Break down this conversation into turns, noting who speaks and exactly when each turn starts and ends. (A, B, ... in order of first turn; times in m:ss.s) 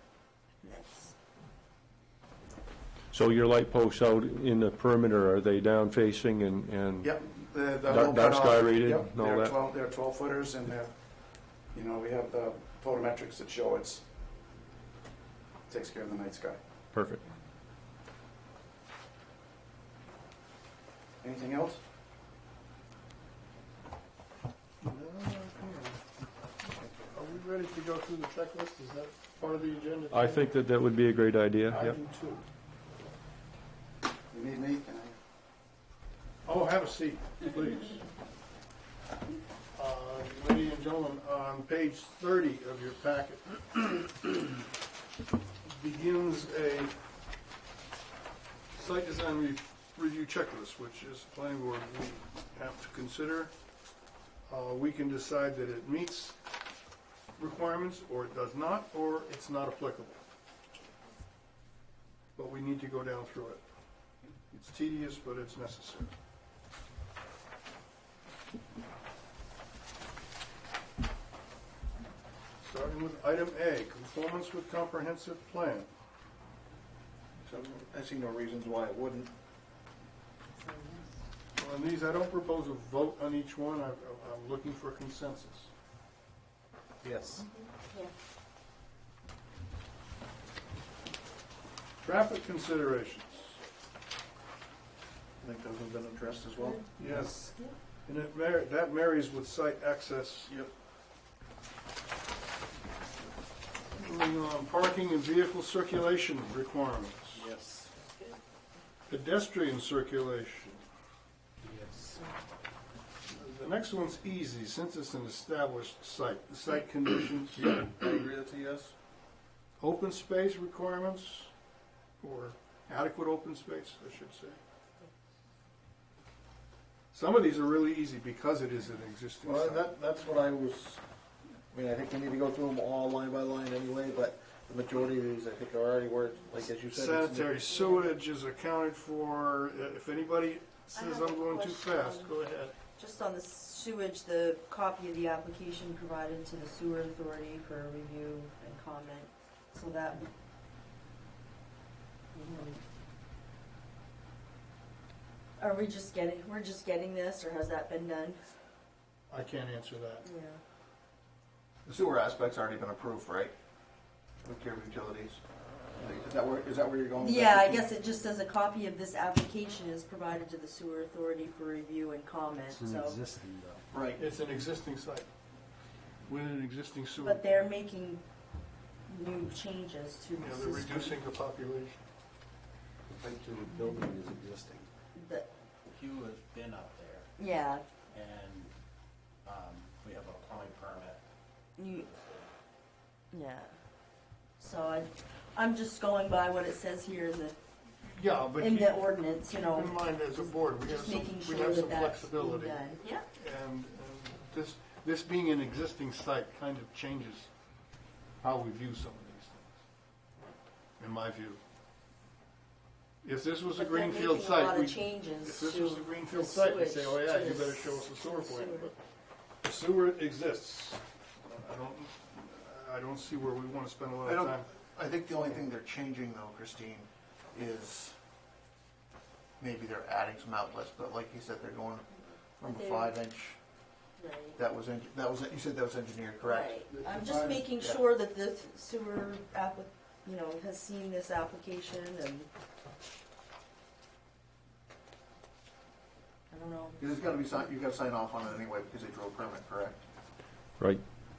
0:00.6-0:01.1 A
0:03.1-0:07.0 B
0:07.0-0:14.0 C
0:07.9-0:09.5 B
0:15.7-0:16.6 C
0:21.2-0:21.8 C
0:24.8-0:26.0 D
0:26.8-0:27.2 C
0:27.1-0:30.6 D
0:30.1-0:31.9 B
0:31.8-0:32.4 D
0:34.3-0:35.2 C
0:36.4-0:38.0 D
0:39.7-0:44.6 D
0:45.6-0:46.9 D
0:48.7-0:53.5 D
0:54.5-0:56.4 D
0:57.4-1:00.2 D
1:02.3-1:03.6 D
1:04.5-1:06.1 D
1:12.6-1:15.9 D
1:17.4-1:19.3 E
1:20.6-1:21.0 A
1:21.6-1:25.7 D
1:27.0-1:27.4 E
1:27.8-1:28.1 A
1:32.0-1:33.6 D
1:35.4-1:37.2 E
1:37.0-1:37.3 D
1:37.3-1:37.7 A
1:38.0-1:40.5 D
1:43.9-1:47.5 D
1:47.3-1:48.0 F
1:49.1-1:50.8 D
1:51.6-1:52.2 F
1:53.3-1:57.7 D
1:57.5-1:58.9 E
1:59.8-2:01.5 D
2:02.2-2:04.6 D
2:07.1-2:09.9 D
2:09.4-2:11.0 E
2:11.7-2:17.5 E
2:16.9-2:22.7 D
2:20.9-2:22.3 A
2:23.0-2:30.3 A
2:32.3-2:32.8 A
2:35.6-2:38.4 A
2:39.3-2:40.2 D
2:40.2-2:40.6 A
2:41.8-2:43.5 E
2:44.4-2:45.4 E
2:46.0-2:47.9 E
2:47.2-2:53.2 A
2:52.7-2:53.8 F
2:53.9-2:54.2 E
2:54.2-2:55.3 D
2:56.3-2:57.6 D
2:57.2-2:58.2 A
2:59.1-3:01.2 A
3:00.3-3:02.0 D
3:03.2-3:03.7 E
3:03.7-3:04.8 F
3:05.1-3:05.5 A
3:05.9-3:07.3 F
3:07.4-3:07.8 A
3:08.1-3:08.7 F
3:09.4-3:11.2 F
3:11.8-3:12.1 A
3:11.9-3:12.5 F
3:13.3-3:13.7 A
3:14.6-3:17.6 A
3:18.0-3:27.5 D
3:18.6-3:23.2 A
3:28.4-3:29.7 D
3:31.0-3:31.6 D
3:33.2-3:39.0 D
3:33.7-3:38.9 A
3:39.6-3:44.7 D
3:44.2-3:48.2 E
3:49.6-3:53.6 E
3:52.6-3:53.1 A
3:54.2-3:54.6 A
3:54.6-3:56.9 E
3:56.4-4:02.5 A
3:56.9-3:57.6 C
3:57.6-3:58.0 E
4:06.5-4:07.0 A
4:07.0-4:10.0 E